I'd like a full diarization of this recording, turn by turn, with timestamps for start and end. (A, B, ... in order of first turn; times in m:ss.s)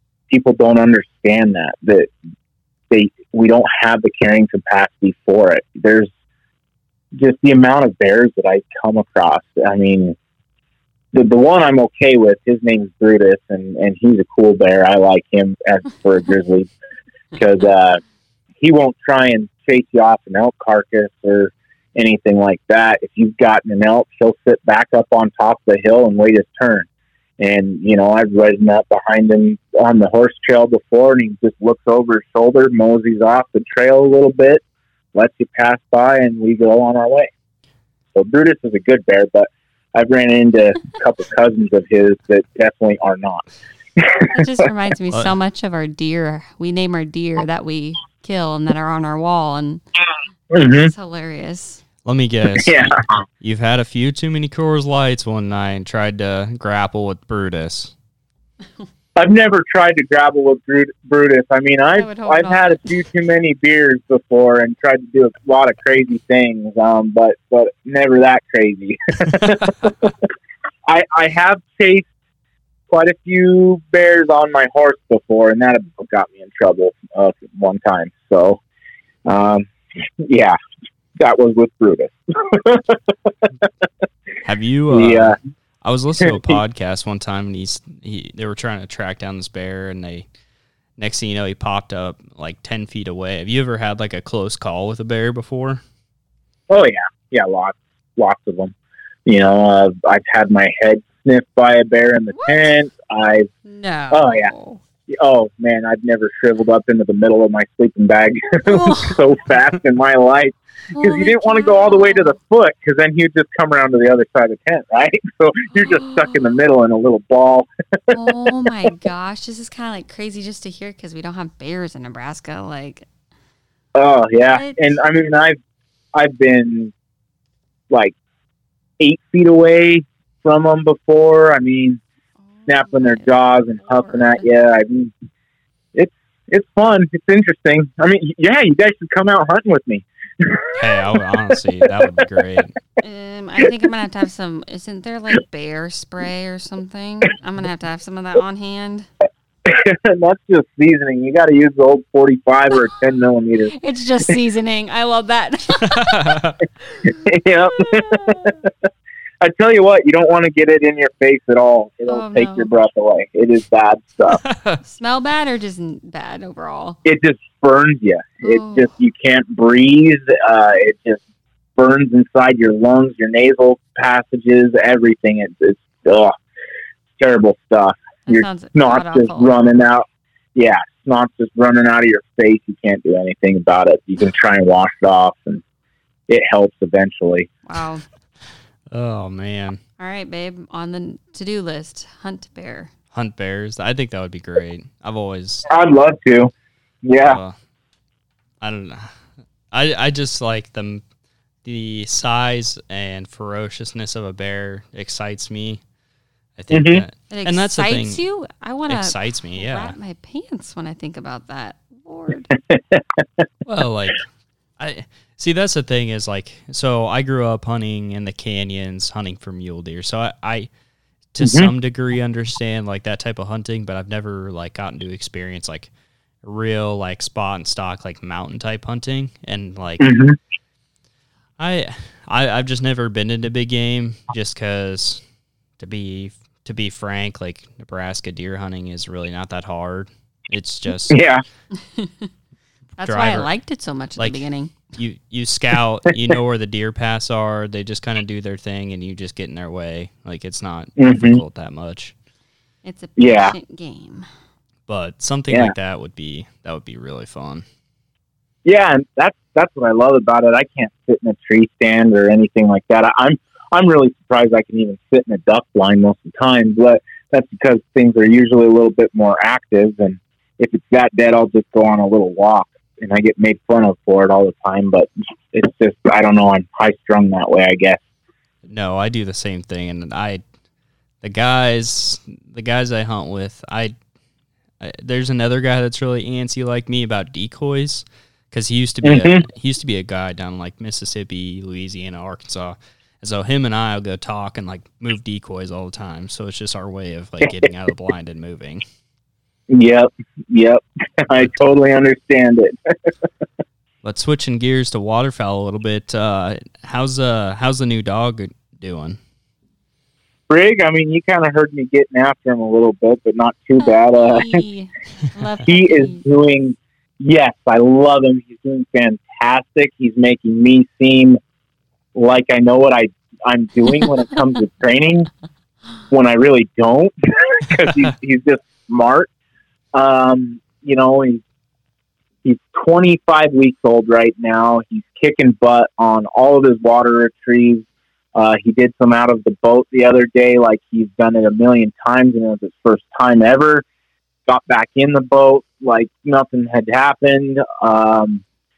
0:00.3-0:02.1 A
0:02.9-0:06.1 A
0:07.1-0:10.2 A
0:11.1-0:16.7 A
0:17.3-0:18.0 A
0:18.6-0:26.9 A
0:27.4-0:34.6 A
0:35.1-0:37.3 A
0:38.1-0:43.4 A
0:44.0-0:44.7 A
0:44.3-0:49.8 B
0:50.5-0:50.9 A
0:50.6-0:51.8 B
0:52.0-0:57.9 C
0:52.6-0:53.0 A
0:59.2-1:09.9 A
1:01.9-1:03.0 B
1:10.8-1:12.1 A
1:12.9-1:18.6 A
1:19.2-1:19.7 A
1:20.2-1:20.5 A
1:21.2-1:23.5 A
1:24.4-1:30.2 C
1:24.9-1:25.4 A
1:26.2-1:26.5 A
1:31.0-1:35.8 C
1:36.7-1:38.7 A
1:39.2-1:43.5 A
1:42.3-1:42.7 B
1:43.6-1:44.8 B
1:44.1-1:44.5 A
1:45.1-1:58.5 A
1:48.6-1:49.2 B
1:50.9-1:52.3 B
1:55.8-1:56.4 B
1:58.1-2:03.0 B
2:03.9-2:05.6 A
2:04.5-2:05.0 B
2:06.1-2:06.9 A
2:07.9-2:08.1 A
2:09.0-2:12.0 A
2:12.6-2:13.2 B
2:12.7-2:15.1 A
2:13.9-2:14.4 B
2:15.9-2:20.8 A
2:20.7-2:22.8 C
2:23.0-2:29.1 B
2:29.6-2:33.7 A
2:33.7-2:37.2 B
2:35.8-2:36.6 C
2:37.0-2:38.7 A
2:37.7-2:38.6 B
2:39.4-2:44.4 A
2:42.1-2:42.7 B
2:44.3-2:44.8 C
2:44.8-2:47.0 B
2:47.0-2:51.2 A
2:48.4-2:48.9 B
2:51.8-2:56.3 A
2:57.2-3:05.6 A
2:58.3-2:59.5 B
3:06.3-3:07.5 A
3:07.6-3:08.0 B
3:08.9-3:09.8 C
3:10.0-3:12.9 B
3:13.1-3:15.7 C
3:15.7-3:16.5 A
3:17.0-3:17.4 A
3:17.2-3:17.5 C
3:18.6-3:19.2 C
3:19.7-3:21.0 C
3:21.6-3:25.8 C
3:26.6-3:28.2 C
3:26.7-3:27.0 A
3:27.3-3:32.5 B
3:28.9-3:30.0 C
3:32.7-3:33.4 A
3:33.6-3:34.2 C
3:34.8-3:40.7 C
3:41.3-3:45.9 C
3:41.4-3:41.7 A
3:46.4-3:50.1 C
3:50.0-3:50.4 A
3:51.6-3:55.2 C
3:55.8-4:01.2 C
4:01.1-4:01.4 A
4:01.9-4:02.3 B
4:03.0-4:04.8 B
4:03.0-4:03.5 C
4:04.9-4:12.1 C
4:11.0-4:11.4 A
4:12.8-4:14.3 B
4:13.2-4:13.5 A
4:14.9-4:17.6 C
4:18.6-4:38.0 A
4:38.6-4:40.4 C
4:41.2-4:43.9 C
4:44.8-4:58.8 C
4:49.0-4:49.4 A
4:59.7-5:03.1 A
5:04.0-5:09.2 C
5:10.5-5:14.6 A
5:13.8-5:16.2 B
5:15.6-5:21.4 A
5:22.1-5:25.3 A
5:26.1-5:29.3 A
5:29.9-5:31.4 A
5:32.4-5:43.8 A
5:44.4-5:48.4 A